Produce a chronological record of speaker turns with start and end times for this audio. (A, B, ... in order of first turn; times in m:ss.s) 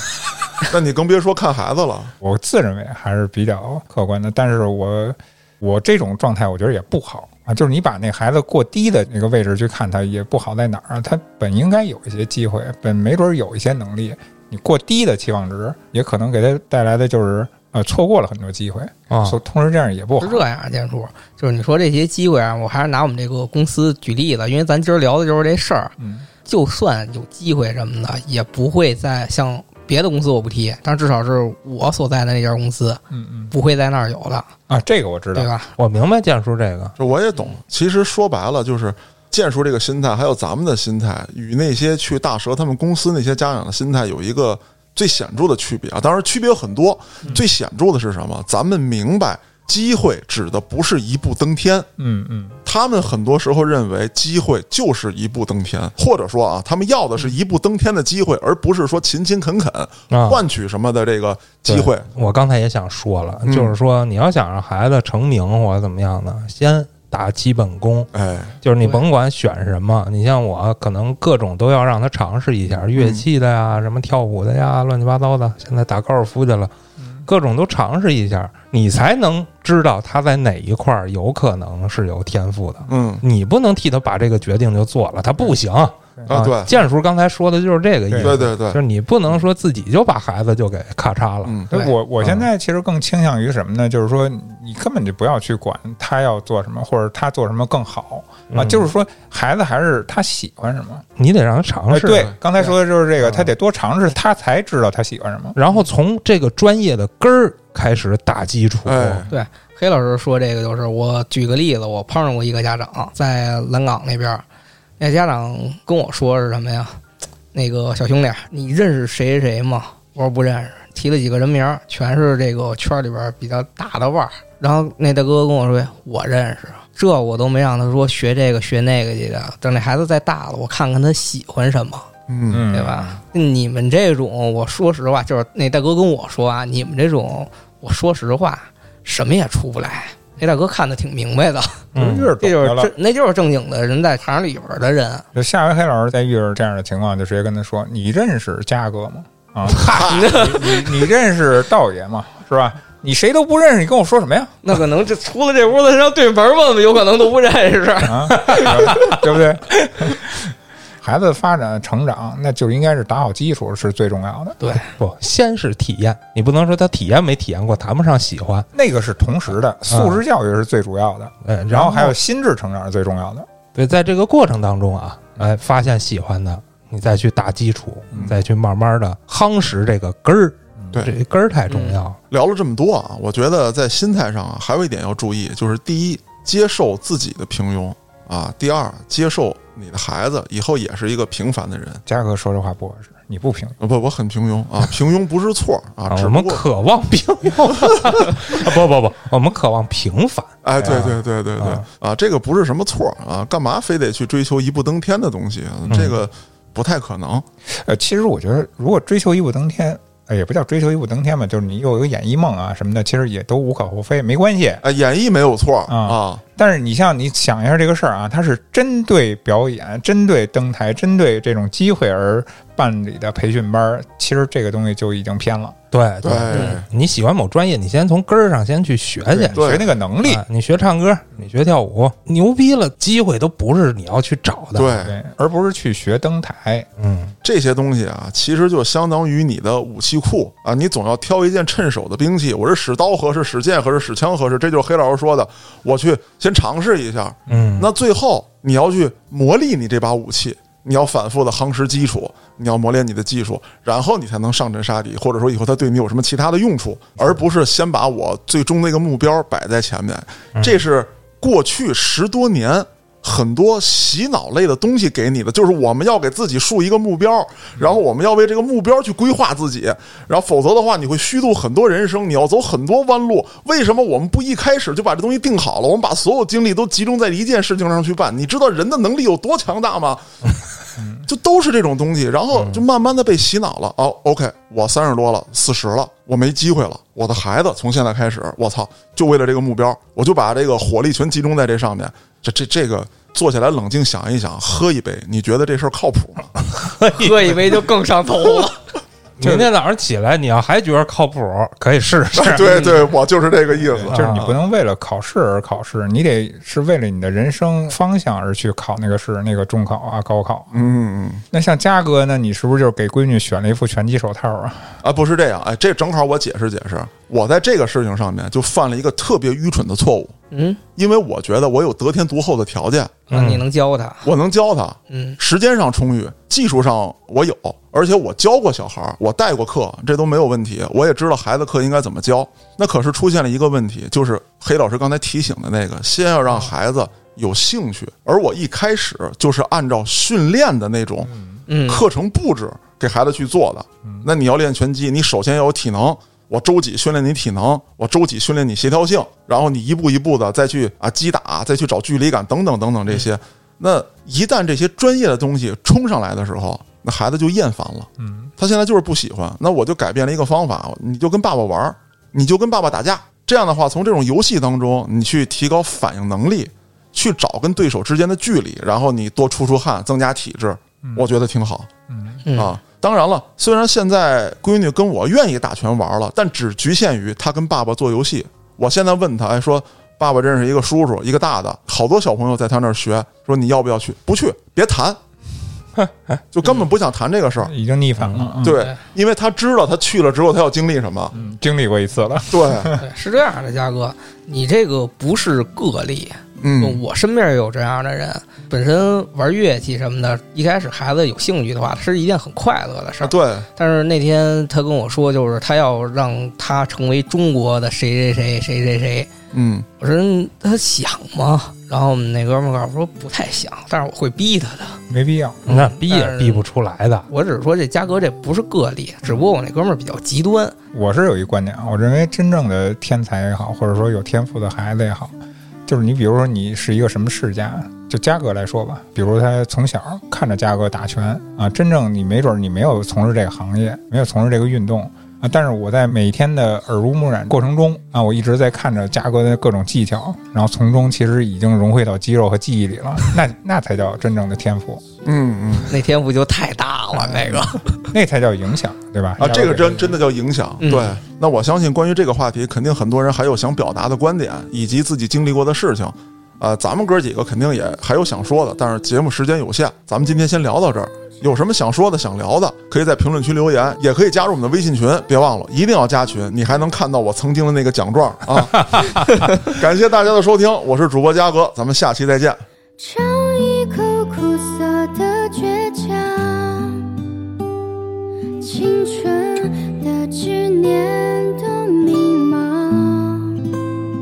0:00.6-0:02.1 A
0:02.2-0:20.4 B
0:19.1-0:19.4 C
0:20.2-0:34.5 D
0:26.0-0:26.3 B
0:33.1-0:33.5 B
0:34.7-0:35.5 B
0:35.4-0:35.7 D
0:35.8-0:37.0 C
0:37.0-0:51.9 A
0:52.0-0:52.6 B
0:52.6-1:02.0 A
1:00.1-1:00.4 C
1:01.7-1:08.1 C
1:03.5-1:03.7 A
1:08.1-1:08.5 A
1:08.6-1:16.7 C
1:12.9-1:13.2 A
1:17.3-1:32.5 C
1:22.9-1:23.2 A
1:26.3-1:26.7 A
1:28.1-1:28.4 B
1:28.2-1:28.8 A
1:31.4-1:31.7 A
1:31.7-1:41.0 B
1:38.5-1:38.9 C
1:41.2-1:42.3 C
1:41.9-1:45.6 B
1:45.6-1:49.2 C
1:48.9-1:49.3 A
1:49.3-1:54.4 D
1:55.0-1:57.0 D
1:57.5-2:12.1 D
2:12.3-2:12.7 A
2:12.5-2:13.2 B
2:12.7-2:21.9 D
2:22.0-2:22.9 B
2:22.0-2:22.4 C
2:22.4-2:25.3 D
2:25.4-2:34.6 B
2:29.9-2:30.2 A
2:30.1-2:30.9 D
2:34.6-2:39.2 D
2:38.0-2:44.8 B
2:44.6-2:44.9 D
2:45.0-2:48.7 C
2:48.7-2:53.5 B
2:49.9-2:50.2 C
2:51.4-2:52.2 C
2:53.8-3:02.2 C
3:01.7-3:02.0 D
3:02.3-3:12.0 A
3:12.1-3:13.8 B
3:13.8-3:16.6 A
3:16.1-3:21.8 C
3:20.6-3:27.4 A
3:25.9-3:26.2 C
3:27.7-3:34.8 B
3:34.8-3:36.4 A
3:35.9-3:45.8 B
3:45.9-3:49.7 C
3:46.2-3:46.9 A
3:46.5-3:46.8 D
3:49.3-3:50.4 B
3:49.6-3:49.8 A
3:50.2-3:55.1 C
3:54.8-3:55.2 A
3:55.0-3:56.9 B
3:57.0-3:57.3 C
3:57.4-4:40.3 A
4:07.5-4:07.9 C
4:20.6-4:20.8 C
4:41.0-4:41.3 B
4:41.3-4:56.5 A
4:42.5-4:42.8 C
4:56.9-4:57.3 C
4:57.1-4:58.8 D
4:59.4-5:02.9 C
5:02.4-5:04.2 A
5:02.6-5:03.1 D
5:03.9-5:10.8 B
5:04.1-5:04.6 C
5:10.7-5:11.4 A
5:11.5-5:15.0 B
5:15.0-5:20.4 A
5:20.5-5:20.8 D
5:21.0-5:23.2 A
5:23.3-5:23.6 C
5:23.3-5:24.3 D
5:24.2-5:41.3 A
5:25.1-5:25.4 D
5:41.3-5:41.6 B
5:41.7-5:42.0 D
5:41.9-6:11.9 A
5:58.2-5:58.5 B
6:12.1-6:12.4 B
6:12.4-6:12.8 D
6:12.5-6:25.2 A
6:26.5-6:27.7 A
6:27.6-6:28.8 B
6:28.2-6:28.5 C
6:28.6-6:31.3 A
6:28.7-6:29.0 D
6:31.3-6:33.0 B
6:32.5-6:32.9 A
6:33.0-6:49.3 D
6:36.6-6:37.0 A
6:43.2-6:43.7 A
6:49.5-6:49.9 A
6:50.0-6:55.0 D
6:55.1-6:55.7 B
6:55.7-6:56.6 D
6:55.7-6:57.3 C
6:57.3-7:00.8 D
7:00.9-7:05.4 B
7:05.9-7:25.0 B
7:25.2-7:26.0 A
7:25.9-7:28.0 D
7:28.1-7:30.2 B
7:29.4-7:52.6 A
7:30.8-7:31.2 D
7:48.6-7:49.3 C
7:53.0-7:57.2 E
7:58.6-8:03.7 E